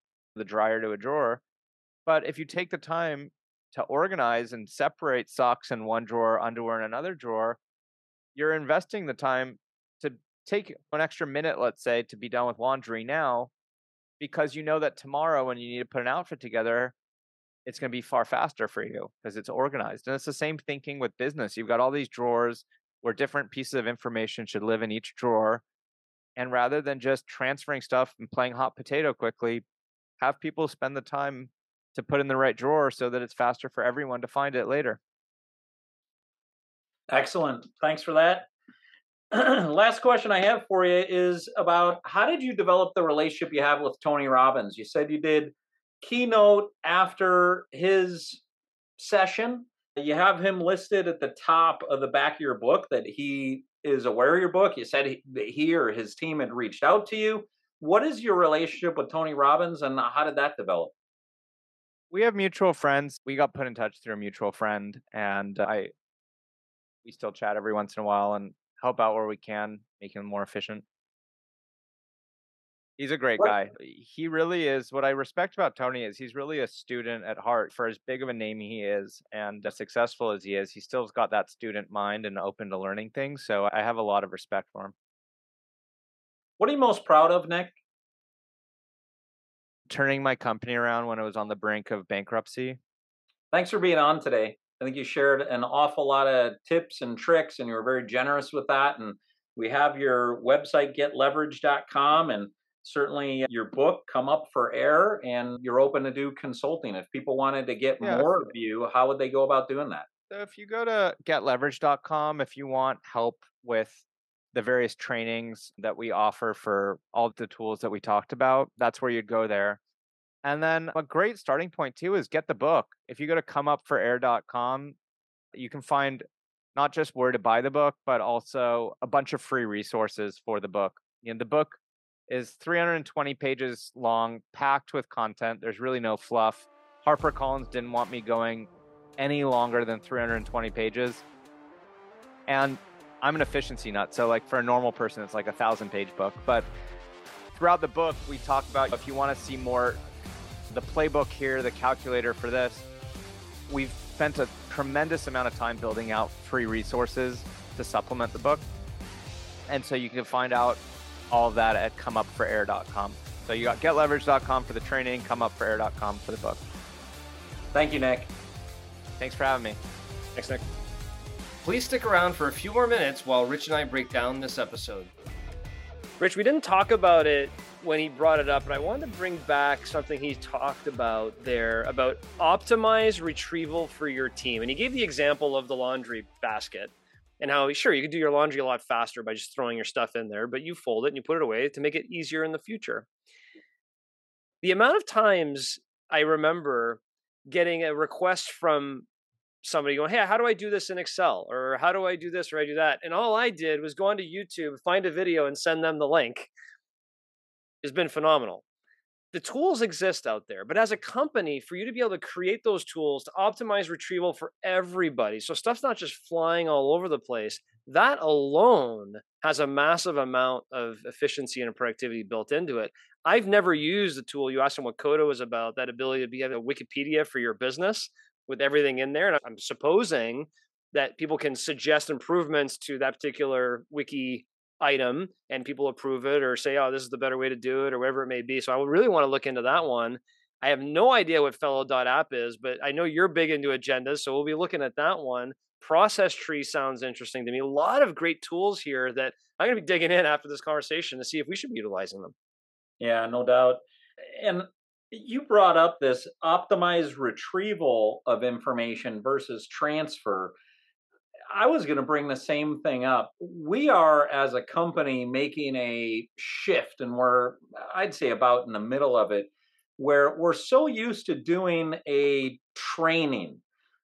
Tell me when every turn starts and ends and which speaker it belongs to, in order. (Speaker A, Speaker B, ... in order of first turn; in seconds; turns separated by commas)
Speaker A: 0.3-1.4, Speaker A: 2.0-7.6, Speaker A: 8.3-13.5, Speaker A: 14.2-16.9, Speaker A: 17.6-25.6, Speaker A: 26.4-29.6, Speaker A: 30.2-35.0, Speaker B: 37.1-38.5, Speaker B: 39.3-48.4, Speaker B: 49.0-60.9, Speaker A: 62.1-65.9, Speaker A: 67.0-70.8, Speaker A: 73.0-84.9, Speaker B: 86.6-87.8, Speaker A: 89.9-92.8, Speaker B: 93.5-110.1, Speaker A: 110.3-119.8, Speaker A: 120.4-125.0, Speaker A: 125.5-126.2, Speaker A: 126.8-141.2, Speaker A: 142.5-146.7, Speaker A: 147.5-150.0, Speaker A: 150.7-152.9, Speaker A: 153.7-158.7, Speaker A: 159.7-166.6, Speaker B: 167.7-168.3, Speaker A: 169.2-169.8, Speaker C: 170.3-170.6, Speaker C: 171.6-175.1, Speaker C: 176.2-193.1, Speaker C: 194.6-199.1, Speaker C: 199.6-206.5, Speaker C: 207.8-208.6, Speaker C: 209.3-252.3, Speaker B: 253.0-260.6, Speaker B: 261.5-273.6